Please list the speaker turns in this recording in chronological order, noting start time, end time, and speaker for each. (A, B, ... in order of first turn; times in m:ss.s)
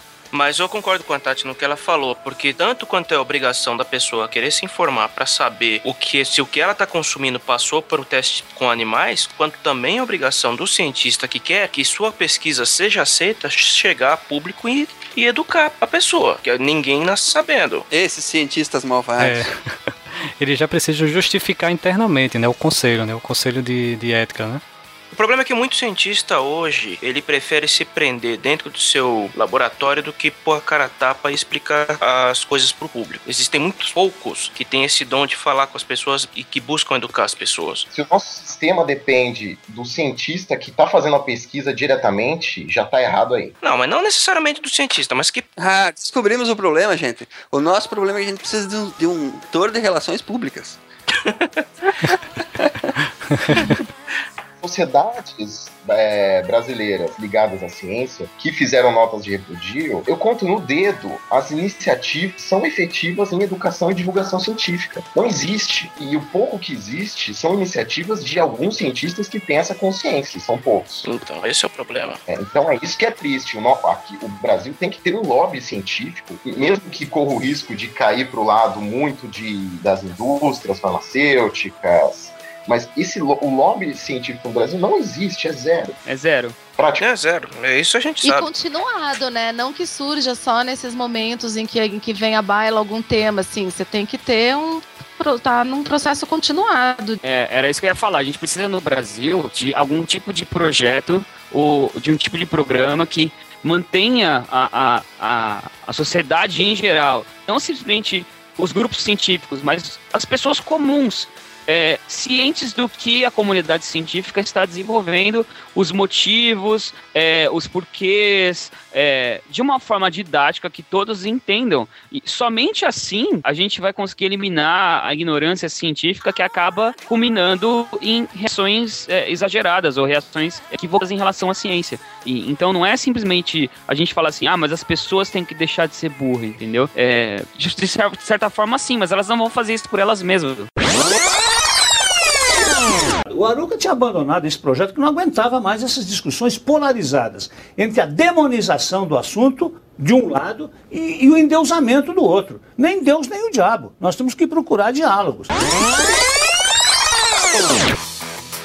0:00.3-0:17.8 A
0:17.9-0:19.5 B
0:19.2-0:24.6 C
0:25.1-0:37.9 A
0:37.9-0:43.5 D
0:43.6-0:45.4 A
0:45.6-0:50.8 B
0:52.6-0:52.9 B
0:53.3-0:53.8 C
0:54.6-1:11.1 D
1:11.0-1:12.2 A
1:12.3-1:26.0 D
1:26.0-1:26.6 E
1:26.8-1:27.0 D
1:27.0-1:28.5 A
1:28.2-1:37.2 F
1:37.2-2:20.7 E
2:23.3-2:35.5 G